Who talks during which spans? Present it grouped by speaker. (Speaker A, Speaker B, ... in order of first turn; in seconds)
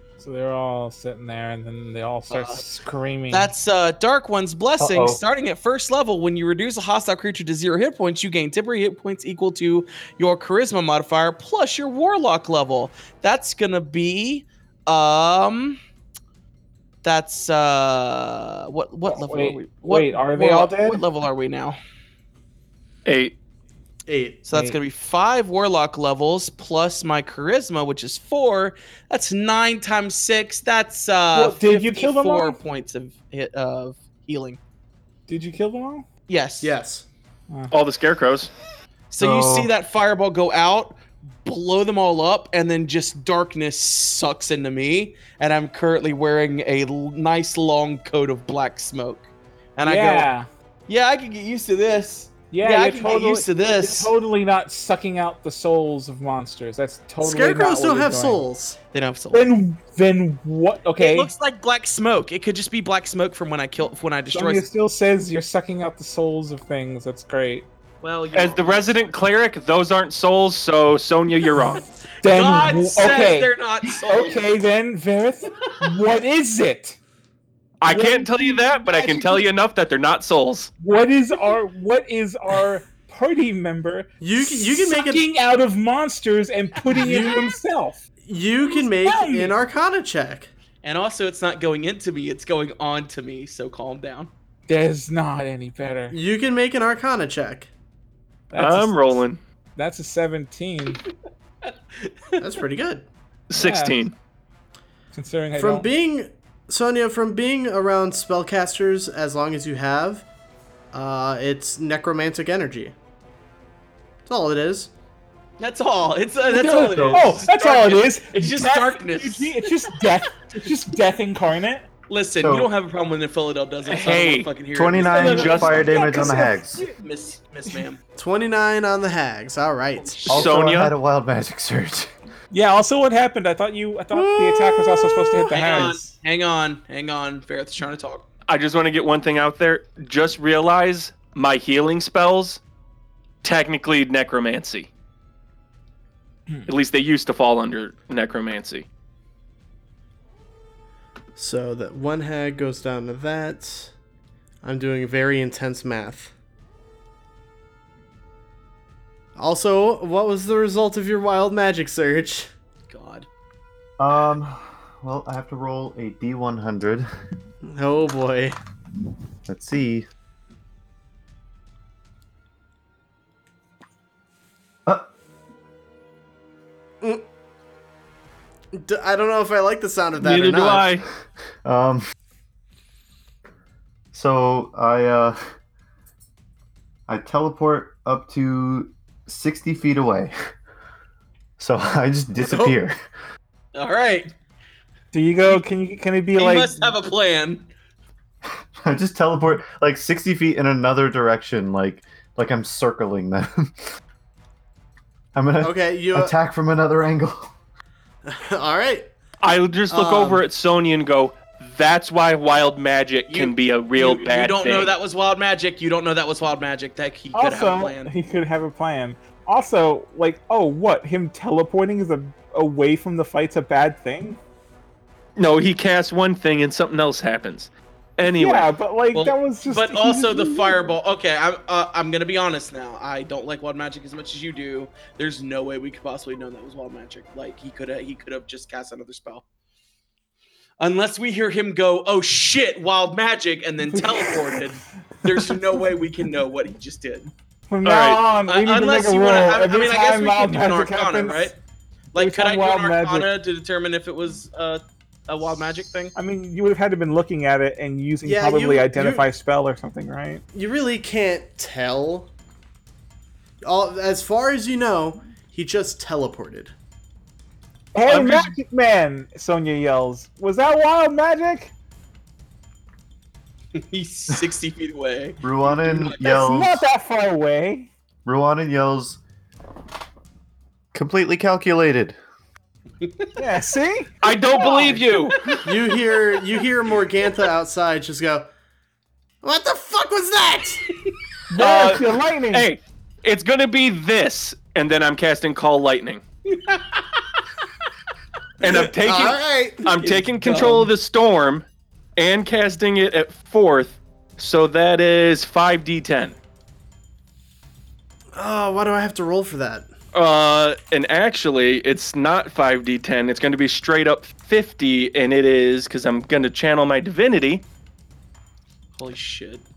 Speaker A: 0.2-3.5, 19.0-21.0, 24.5-24.8, 31.3-32.6, 35.3-36.1, 49.8-50.5, 52.5-58.5, 59.3-61.3, 64.3-67.7, 72.2-77.0, 77.8-79.4, 80.8-88.0, 88.6-89.6, 94.7-96.2, 98.5-99.2, 99.8-101.0, 103.6-104.0, 105.1-105.9, 116.5-121.9, 125.1-127.0, 132.5-136.0, 195.1-196.9, 217.3-224.4, 228.2-230.9, 243.9-244.6, 247.7-251.5, 252.2-253.3, 256.1-260.4, 267.9-271.7, 276.2-277.9, 283.4-285.3, 291.5-292.7
Speaker B: 2.3-2.6, 3.3-15.8, 17.0-21.8, 24.4-34.6, 36.3-36.7, 39.1-50.3, 50.9-54.1, 58.9-59.5, 61.0-64.7, 68.0-69.1, 72.2-74.5, 90.8-94.3, 101.7-102.4, 115.6-120.7, 122.1-128.0, 135.5-138.2, 162.9-163.3, 193.7-194.3, 196.4-197.7, 213.3-218.1, 229.1-239.4, 240.8-247.3, 248.4-251.6, 252.1-256.1, 273.7-276.2, 283.0-283.3, 296.4-297.4, 300.0-300.9, 318.9-319.6
Speaker C: 4.8-5.2, 39.2-39.7, 116.6-117.4, 122.4-122.7, 124.8-126.8, 130.3-132.1, 164.0-167.1, 169.5-170.1, 181.7-182.0, 184.1-185.4, 187.1-190.3, 191.6-192.9, 198.8-203.7, 205.3-207.5, 275.4-276.8, 278.2-279.2, 280.9-282.2
Speaker D: 23.1-23.4, 37.7-38.5, 68.3-71.9, 77.8-80.7, 98.6-99.4, 103.5-104.1, 123.9-124.5, 125.1-125.9, 130.3-130.9, 138.5-142.6, 143.4-144.9, 146.7-148.9, 180.2-181.1, 209.4-214.9, 225.4-228.7, 247.8-248.2, 268.1-268.5, 284.2-285.6, 291.6-296.2, 298.6-301.6, 302.2-306.4, 310.1-317.6
Speaker E: 24.1-24.4, 36.6-37.1, 57.2-58.8, 84.2-85.2, 86.9-87.5, 88.2-90.5, 96.1-97.7, 102.4-103.1, 105.6-110.3, 110.9-113.0, 114.3-114.9, 128.2-130.5, 134.2-135.8, 151.4-153.9, 154.6-156.3, 159.4-162.5, 167.6-168.6, 178.7-180.9, 192.4-192.8, 205.6-206.3, 208.2-209.1, 209.9-210.4, 258.2-259.3, 260.5-262.3, 263.6-266.7, 285.6-288.5, 289.4-290.9, 298.6-299.9, 308.4-309.9